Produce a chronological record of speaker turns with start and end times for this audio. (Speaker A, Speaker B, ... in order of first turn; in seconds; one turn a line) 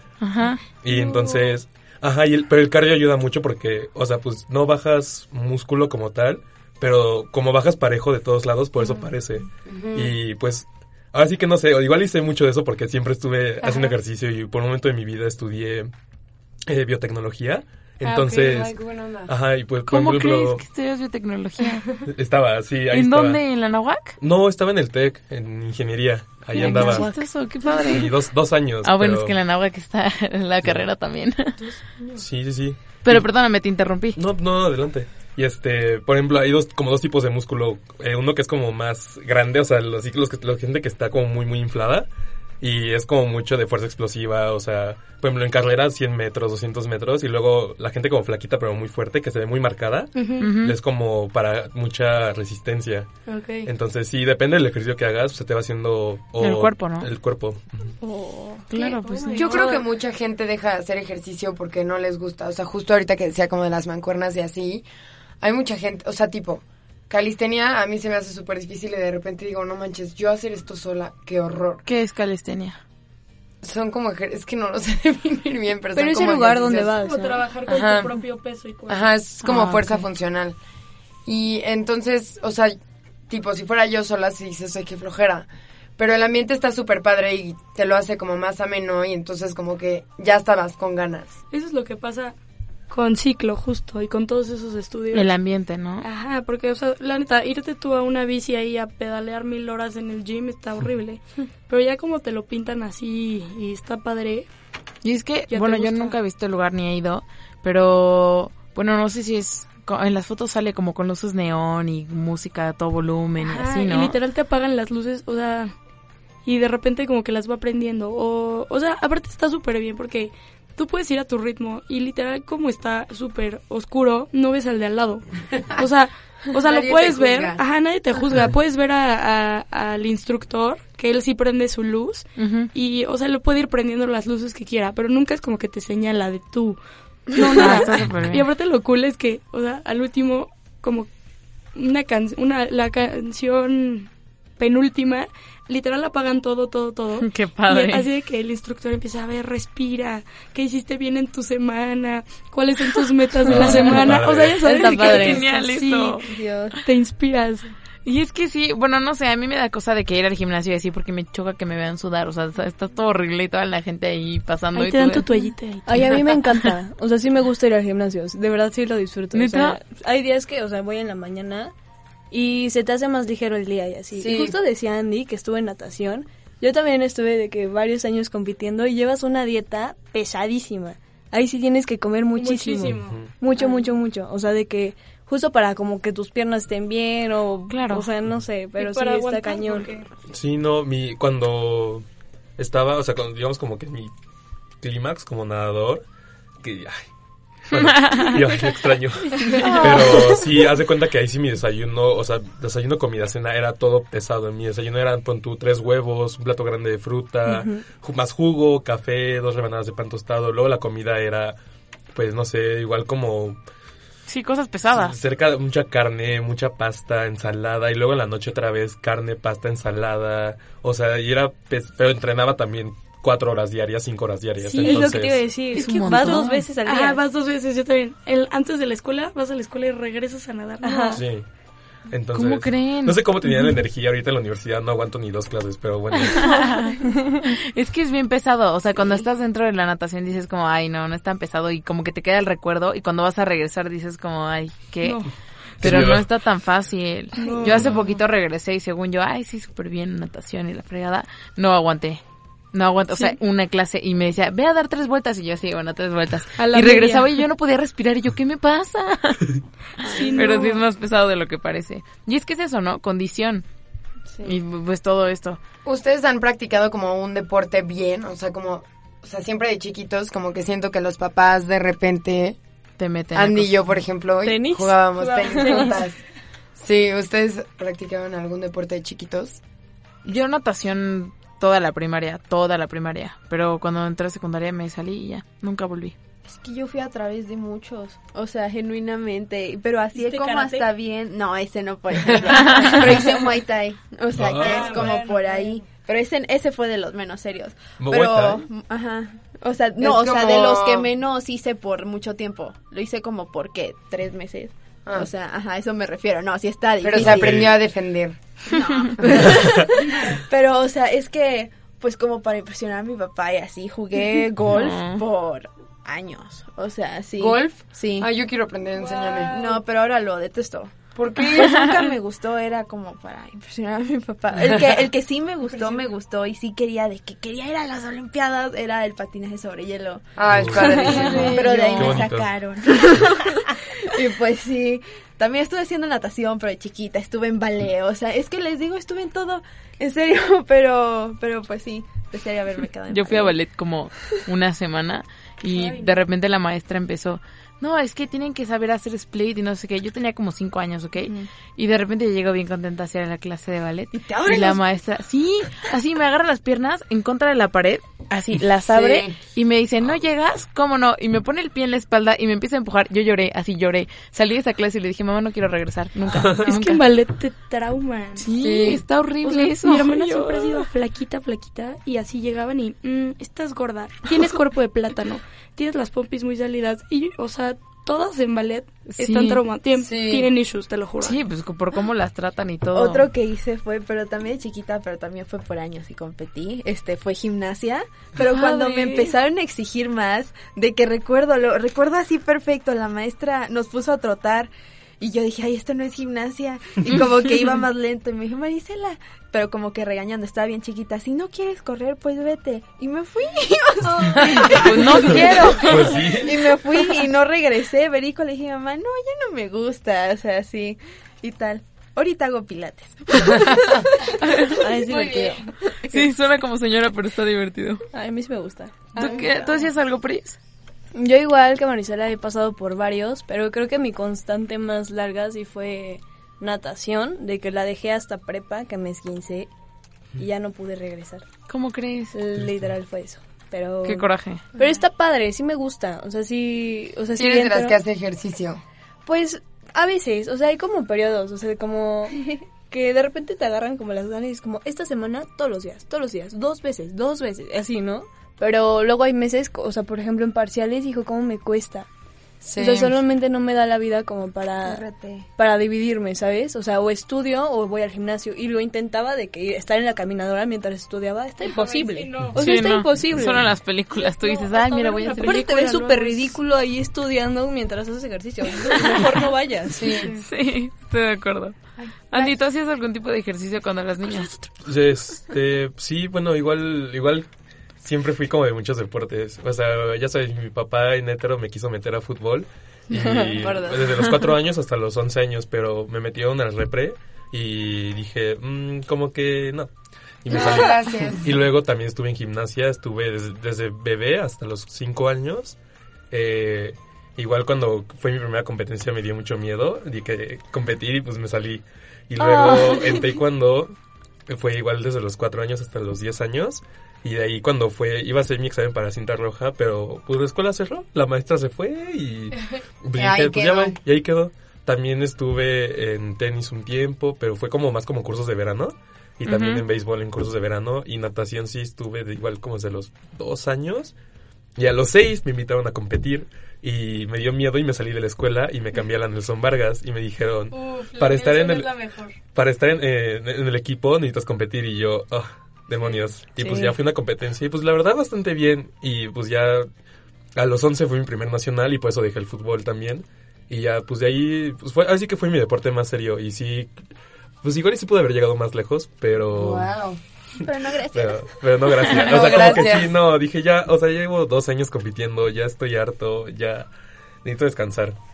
Speaker A: 0.2-0.6
Speaker B: 0.8-15.9
Speaker C: 0.9-1.5
Speaker D: 9.7-10.2
Speaker C: 13.6-14.0
Speaker B: 16.7-18.8
Speaker C: 18.0-18.5
Speaker D: 18.4-19.3
Speaker B: 19.3-20.6
Speaker A: 19.9-22.0
Speaker B: 22.1-23.4
Speaker A: 22.9-24.2
Speaker B: 24.2-29.3
Speaker A: 26.6-28.3
Speaker A: 28.8-31.6
Speaker C: 31.6-32.2
Speaker B: 32.2-33.3
Speaker A: 33.0-34.2
Speaker B: 34.1-42.1
Speaker B: 42.6-53.1
Speaker C: 50.2-50.5
Speaker A: 50.4-50.8
Speaker C: 53.3-53.7
Speaker B: 53.6-57.9
Speaker A: 56.4-57.1
Speaker E: 58.0-59.8
Speaker F: 58.2-58.5
Speaker A: 58.7-59.6
Speaker D: 59.4-64.8
Speaker C: 59.5-59.8
Speaker D: 65.4-71.8
Speaker A: 71.9-72.8
Speaker D: 73.6-77.0
Speaker F: 76.0-77.5
Speaker C: 77.0-79.1
Speaker D: 77.7-78.1
Speaker D: 78.9-80.6
Speaker A: 79.4-80.1
Speaker D: 81.3-82.8
Speaker D: 83.3-91.3
Speaker C: 91.5-92.4
Speaker C: 92.9-95.3
Speaker A: 95.1-96.0
Speaker C: 96.0-104.5
Speaker A: 105.0-114.2
Speaker C: 105.5-106.2
Speaker C: 113.4-115.7
Speaker C: 116.5-141.1
Speaker D: 126.6-127.6
Speaker A: 132.4-132.7
Speaker A: 137.5-138.4
Speaker C: 141.7-156.3
Speaker A: 147.2-148.1
Speaker B: 153.5-154.7
Speaker A: 153.5-156.3
Speaker F: 154.6-155.5
Speaker E: 156.3-156.7
Speaker C: 156.8-157.7
Speaker A: 158.1-165.3
Speaker C: 164.7-166.2
Speaker F: 165.9-171.7
Speaker A: 169.3-169.8
Speaker F: 172.3-190.0
Speaker D: 174.2-174.6
Speaker C: 182.4-183.2
Speaker B: 183.1-183.3
Speaker A: 187.7-188.1
Speaker C: 188.8-190.1
Speaker B: 190.3-192.1
Speaker B: 192.6-194.1
Speaker B: 194.8-196.0
Speaker B: 196.6-197.1
Speaker B: 197.7-211.6
Speaker A: 197.8-198.2
Speaker A: 199.7-200.1
Speaker F: 207.5-207.8
Speaker B: 212.1-213.6
Speaker A: 214.3-215.2
Speaker B: 214.9-225.6
Speaker F: 224.6-227.2
Speaker A: 225.7-226.7
Speaker C: 225.9-231.2
Speaker F: 230.8-231.2
Speaker B: 231.1-231.5
Speaker B: 232.1-236.7
Speaker A: 232.3-233.2
Speaker A: 236.3-252.2
Speaker C: 245.0-245.3
Speaker B: 245.8-246.3
Speaker C: 247.4-248.0
Speaker B: 247.7-247.9
Speaker A: 252.7-259.5
Speaker C: 256.6-257.3
Speaker C: 260.0-260.8
Speaker E: 260.1-260.6
Speaker A: 260.3-263.6
Speaker A: 264.4-265.6
Speaker D: 265.9-272.6
Speaker A: 273.0-273.8
Speaker D: 273.3-276.2
Speaker F: 274.4-276.0
Speaker D: 276.8-279.6
Speaker A: 280.2-286.2
Speaker E: 286.4-307.7
Speaker F: 290.1-290.9
Speaker D: 292.3-292.8
Speaker B: 294.3-295.2
Speaker D: 294.5-295.2
Speaker C: 294.6-295.6
Speaker B: 298.0-298.6
Speaker D: 300.0-301.1
Speaker D: 305.1-305.3
Speaker D: 307.0-308.4
Speaker B: 307.2-307.8
Speaker E: 308.7-318.3
Speaker B: 309.4-309.7
Speaker A: 314.7-315.2
Speaker D: 317.4-319.8
Speaker E: 319.0-330.3
Speaker D: 321.1-321.9
Speaker A: 321.6-321.9
Speaker D: 324.6-325.0
Speaker C: 325.7-326.0
Speaker D: 330.4-332.1
Speaker B: 330.5-332.6
Speaker E: 330.8-343.6
Speaker C: 331.1-331.5
Speaker A: 343.1-367.0
Speaker C: 345.7-346.2
Speaker E: 354.1-354.8
Speaker D: 358.9-359.4
Speaker C: 366.6-368.5
Speaker A: 368.4-370.9
Speaker D: 368.6-369.0
Speaker C: 369.4-381.4
Speaker A: 379.1-379.6
Speaker D: 380.0-380.5
Speaker A: 381.2-383.3
Speaker E: 382.9-416.3
Speaker C: 388.4-389.3
Speaker A: 404.5-406.2
Speaker B: 405.7-406.7
Speaker D: 413.4-414.1
Speaker F: 414.7-415.7
Speaker A: 416.1-418.0
Speaker F: 418.1-419.1
Speaker E: 419.1-419.9
Speaker A: 419.1-420.6
Speaker F: 421.1-429.7
Speaker F: 430.4-431.5
Speaker A: 431.7-432.4
Speaker F: 432.3-438.0
Speaker A: 434.0-434.6
Speaker D: 437.4-438.8
Speaker F: 439.3-452.1
Speaker D: 452.6-453.2
Speaker F: 452.8-455.1
Speaker E: 454.8-455.4
Speaker F: 455.6-463.7
Speaker C: 461.6-463.1
Speaker A: 462.6-465.6
Speaker C: 464.1-466.5
Speaker F: 465.4-470.1
Speaker D: 469.9-470.3
Speaker A: 470.3-471.8
Speaker A: 472.3-474.5
Speaker B: 474.8-477.5
Speaker B: 478.0-489.9
Speaker F: 483.1-483.9
Speaker B: 490.4-495.8
Speaker D: 490.5-491.5
Speaker B: 496.3-503.9
Speaker F: 502.7-503.1
Speaker B: 504.5-524.1
Speaker D: 513.2-514.0
Speaker A: 519.5-519.9
Speaker B: 524.8-532.0
Speaker E: 530.8-532.3
Speaker B: 532.5-539.9
Speaker E: 536.6-536.9
Speaker B: 540.6-547.0
Speaker B: 547.6-549.9
Speaker D: 549.5-550.2
Speaker E: 550.6-551.8
Speaker B: 551.1-556.9
Speaker D: 552.1-553.1
Speaker A: 552.5-552.8
Speaker B: 557.4-558.2